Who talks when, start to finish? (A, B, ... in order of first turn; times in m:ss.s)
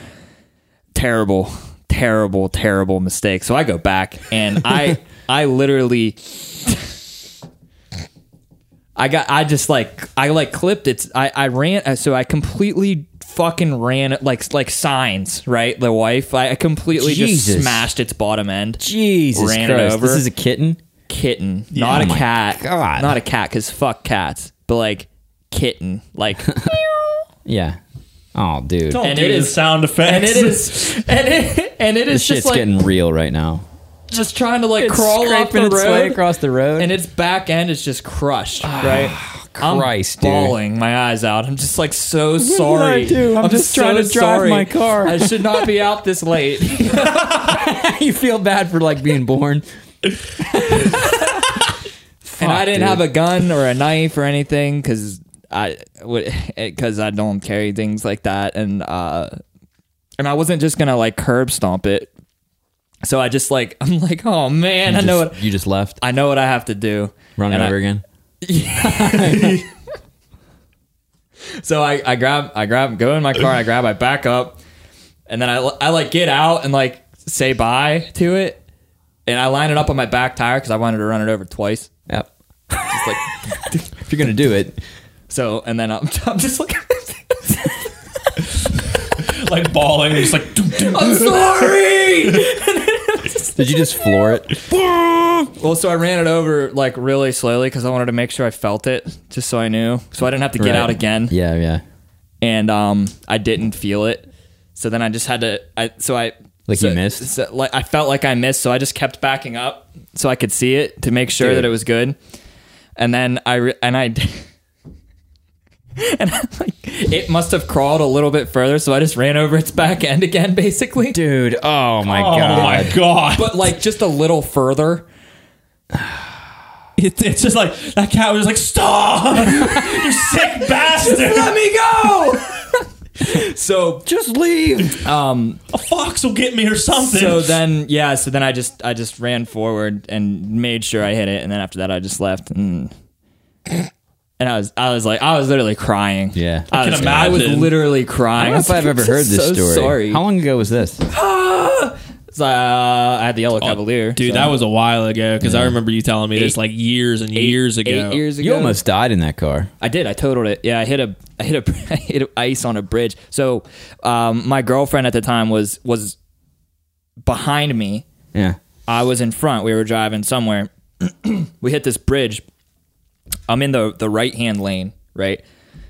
0:00.9-0:06.9 A
0:09.0-0:20.2 A
0:17.0-0:17.9 B
0:18.8-0:20.8 B
0:21.1-0:26.7 A
0:21.7-0:22.1 C
0:21.9-0:23.1 B
0:27.4-0:27.8 B
0:28.3-0:29.0 B
0:28.9-0:30.7 C
0:29.0-0:32.6 A
0:32.1-0:33.6 B
0:34.1-0:47.4 A
0:34.8-0:36.9 B
0:38.6-0:40.6 B
0:42.4-0:45.7 B
0:46.8-0:49.6 B
0:50.2-0:51.3 B
0:50.7-0:51.5 A
0:52.2-0:53.1 B
0:52.4-0:59.4 A
1:00.2-1:02.1 A
1:03.0-1:05.5 A
1:04.8-1:06.0 B
1:06.0-1:07.7 A
1:07.4-1:08.0 B
1:08.4-1:09.7 A
1:08.8-1:09.6 B
1:11.6-1:14.6 A
1:15.3-1:18.6 A
1:19.2-1:21.9 A
1:22.1-1:23.2 B
1:22.9-1:23.8 A
1:24.0-1:24.8 B
1:25.3-1:28.4 A
1:29.2-1:32.4 C
1:30.7-1:33.9 A
1:33.6-1:35.5 B
1:35.6-1:41.3 A
1:40.6-1:41.8 B
1:42.4-1:52.2 A
1:46.7-1:47.3 B
1:51.4-1:51.7 B
1:53.0-1:54.4 A
1:56.0-2:01.2 A
2:01.1-2:03.0 B
2:02.0-2:03.7 C
2:02.6-2:05.0 A
2:05.9-2:06.2 B
2:07.0-2:11.6 C
2:09.6-2:14.0 A
2:14.0-2:15.0 B
2:15.0-2:15.6 A
2:15.7-2:17.6 C
2:17.0-2:22.9 A
2:24.4-2:30.2 A
2:26.3-2:27.5 B
2:26.7-2:27.8 C
2:28.4-2:31.0 B
2:31.1-2:34.5 A
2:33.6-2:38.2 C
2:35.4-2:35.8 B
2:37.3-2:38.8 A
2:38.4-2:39.7 B
2:39.8-2:46.2 A
2:47.2-2:48.0 A
2:48.9-2:52.4 A
2:53.5-2:55.4 A